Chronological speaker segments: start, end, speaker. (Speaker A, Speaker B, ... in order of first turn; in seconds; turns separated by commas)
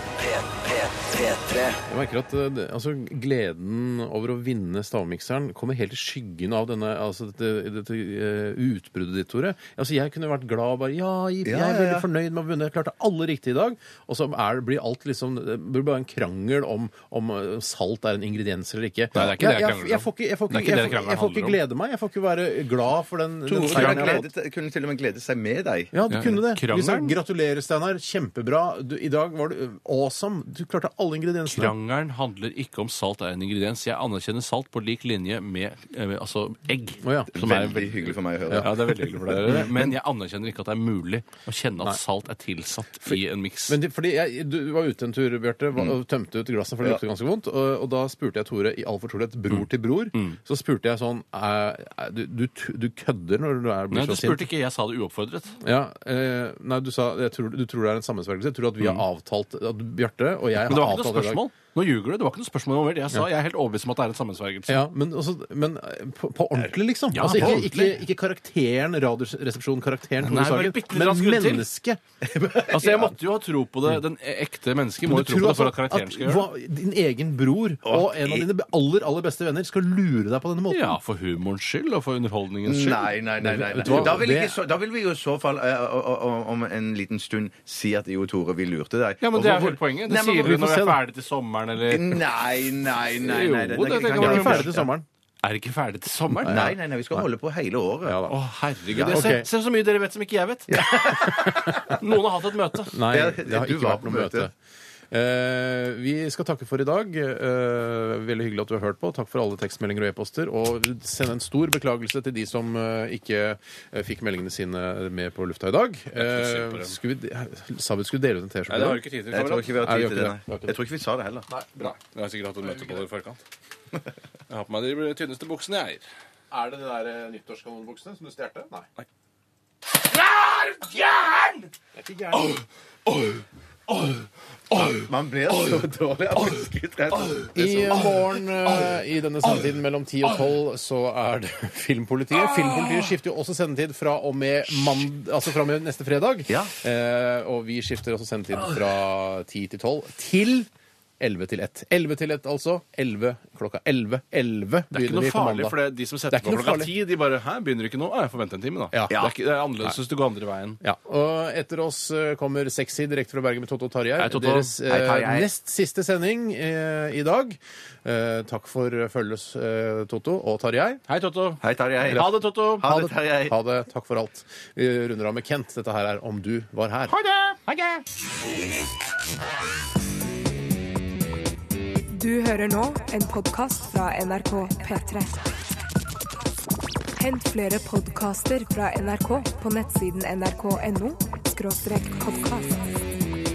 Speaker A: 1.0-1.7, Speaker B: 1.9-24.3, Speaker C: 11.4-12.1, Speaker D: 19.1-21.6, Speaker C: 23.4-25.9, Speaker D: 23.7-24.0, Speaker B: 25.9-31.7, Speaker D: 26.1-27.2, Speaker D: 31.5-43.8, Speaker B: 37.0-37.4, Speaker C: 37.3-39.6, Speaker B: 43.0-54.5, Speaker D: 49.5-50.4, Speaker D: 53.9-55.6, Speaker B: 55.6-61.4, Speaker D: 58.8-59.0, Speaker D: 60.6-64.8, Speaker B: 64.7-73.0, Speaker D: 67.1-68.0, Speaker D: 70.2-71.7, Speaker C: 72.2-73.1, Speaker D: 72.7-76.5, Speaker B: 75.0-81.0, Speaker C: 77.8-78.5, Speaker D: 80.7-83.1, Speaker C: 82.6-90.5, Speaker B: 83.4-84.6, Speaker D: 83.8-84.2, Speaker D: 89.2-92.2, Speaker B: 90.4-91.0, Speaker C: 91.8-94.9, Speaker D: 93.1-94.9, Speaker B: 94.1-95.0, Speaker D: 95.4-96.6, Speaker B: 96.3-97.2, Speaker C: 96.4-98.2, Speaker B: 98.0-98.3, Speaker D: 98.3-100.8, Speaker C: 98.9-99.4, Speaker B: 99.0-99.5, Speaker C: 100.7-101.8, Speaker B: 101.0-101.9, Speaker D: 101.4-102.9, Speaker B: 102.9-104.5, Speaker C: 103.1-104.5, Speaker B: 105.1-119.1, Speaker D: 116.2-117.0, Speaker D: 118.7-120.1, Speaker C: 119.3-121.5, Speaker B: 119.8-120.8, Speaker B: 121.5-123.1, Speaker D: 122.1-123.4, Speaker D: 124.5-126.0, Speaker B: 126.5-128.9, Speaker D: 130.0-131.7, Speaker B: 131.9-132.5, Speaker D: 132.4-135.8, Speaker C: 134.8-138.1, Speaker B: 137.5-150.7, Speaker C: 146.5-146.7, Speaker B: 151.2-155.8, Speaker D: 154.9-160.8, Speaker B: 156.3-156.9, Speaker B: 158.9-159.2, Speaker B: 160.8-171.0, Speaker D: 164.2-164.8, Speaker C: 164.8-165.5, Speaker D: 171.1-173.1, Speaker C: 171.6-173.6, Speaker B: 173.4-177.2, Speaker D: 177.2-178.0, Speaker A: 182.1-185.4, Speaker A: 187.2-192.9